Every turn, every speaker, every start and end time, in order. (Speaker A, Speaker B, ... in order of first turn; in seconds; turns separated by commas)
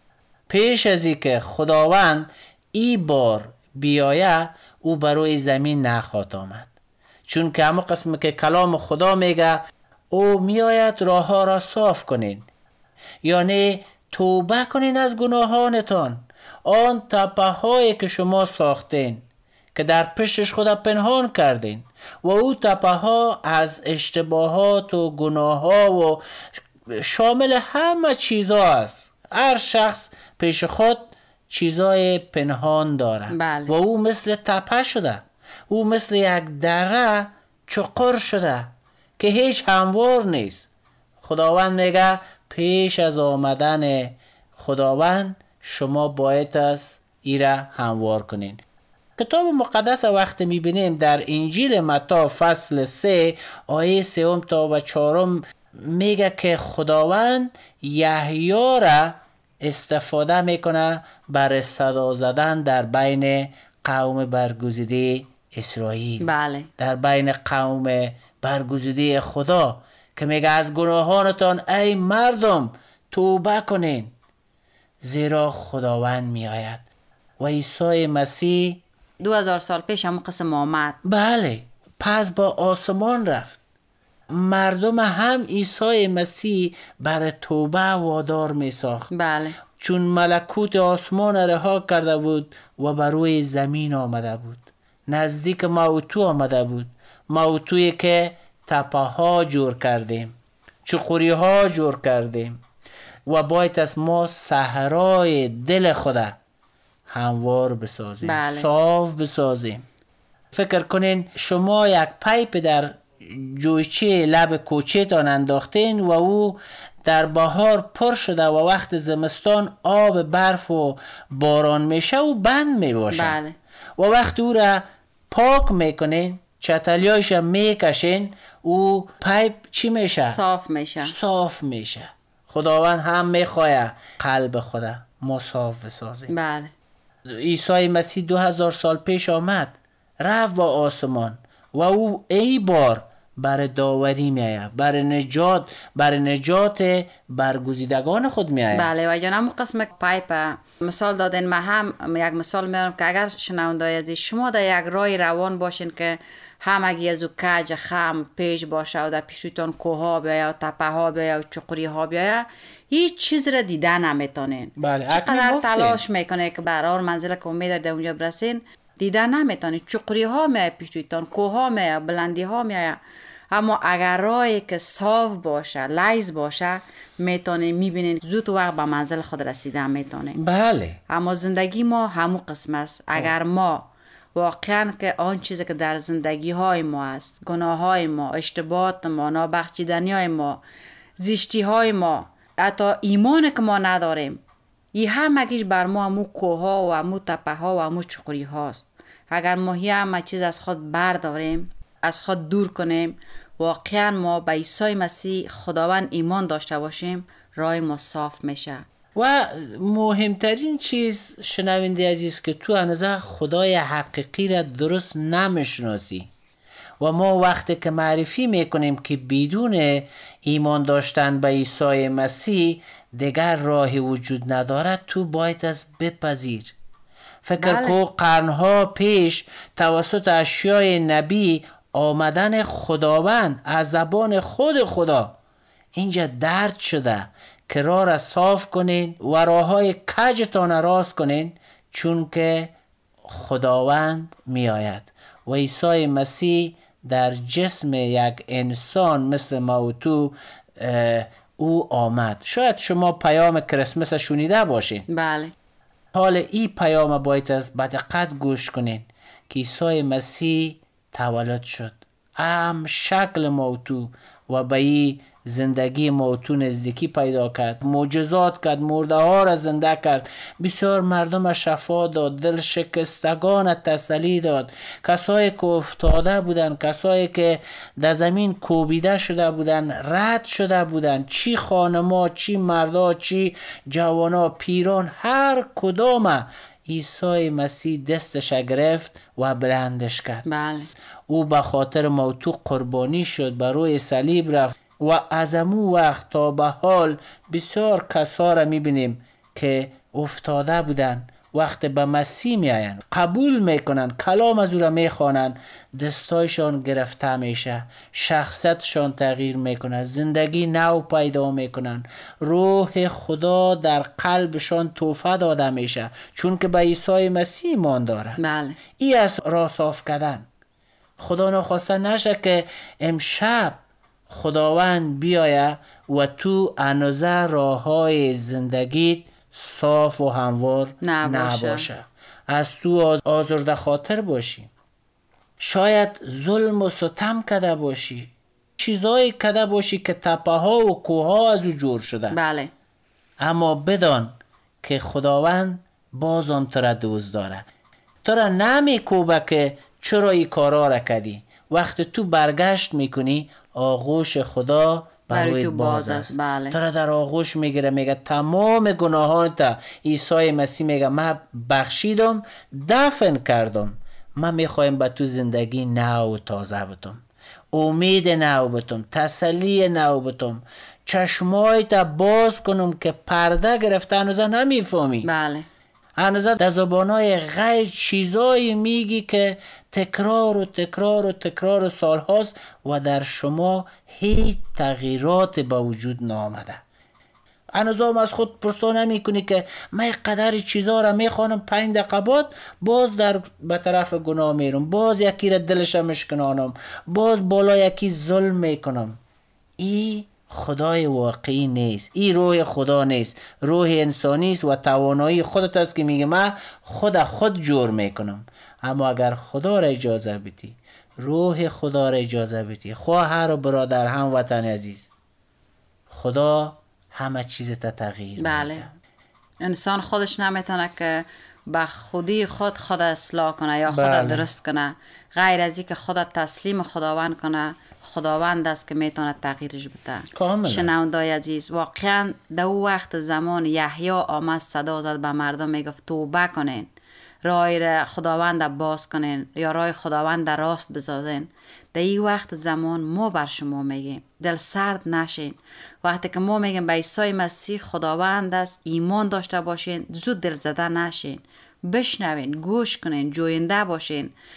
Speaker A: 0.5-6.7, Speaker A: 7.3-12.5, Speaker A: 13.2-26.2, Speaker A: 26.9-40.7, Speaker B: 33.3-33.8, Speaker A: 41.2-48.6, Speaker A: 49.2-74.1, Speaker B: 66.2-66.7, Speaker A: 75.0-76.8, Speaker A: 77.4-78.8, Speaker B: 79.2-81.0, Speaker A: 81.0-83.6, Speaker A: 84.3-89.1, Speaker B: 89.1-89.6, Speaker A: 89.7-102.6, Speaker A: 103.3-106.4, Speaker A: 107.1-109.8, Speaker B: 108.2-108.7, Speaker A: 110.5-123.4, Speaker B: 123.1-123.6, Speaker A: 124.0-130.4, Speaker B: 130.2-131.2, Speaker A: 131.0-136.3, Speaker B: 136.3-136.7, Speaker A: 137.3-148.9, Speaker B: 148.7-173.0, Speaker A: 164.8-166.0, Speaker B: 173.5-180.4, Speaker A: 180.3-181.0, Speaker B: 181.1-190.6, Speaker B: 191.2-194.4, Speaker B: 194.9-208.8, Speaker A: 209.2-216.3, Speaker A: 217.0-226.8, Speaker A: 227.4-235.4, Speaker B: 227.6-228.0, Speaker A: 235.9-242.7, Speaker A: 243.2-255.1, Speaker B: 255.1-255.5, Speaker A: 256.1-290.4, Speaker B: 290.4-290.9, Speaker A: 291.3-318.4, Speaker B: 318.4-318.8, Speaker A: 319.0-320.5, Speaker A: 321.2-334.7, Speaker B: 331.0-331.9, Speaker A: 335.6-342.4, Speaker B: 342.3-342.7, Speaker A: 343.4-347.6, Speaker A: 348.2-367.2, Speaker B: 355.3-356.8, Speaker A: 367.7-375.3, Speaker B: 375.2-375.7, Speaker A: 376.2-386.8, Speaker A: 387.8-399.2, Speaker A: 399.8-415.1, Speaker A: 416.1-418.9, Speaker B: 418.4-418.9, Speaker B: 419.6-436.9, Speaker A: 423.9-424.5, Speaker A: 430.3-430.9, Speaker B: 437.4-454.3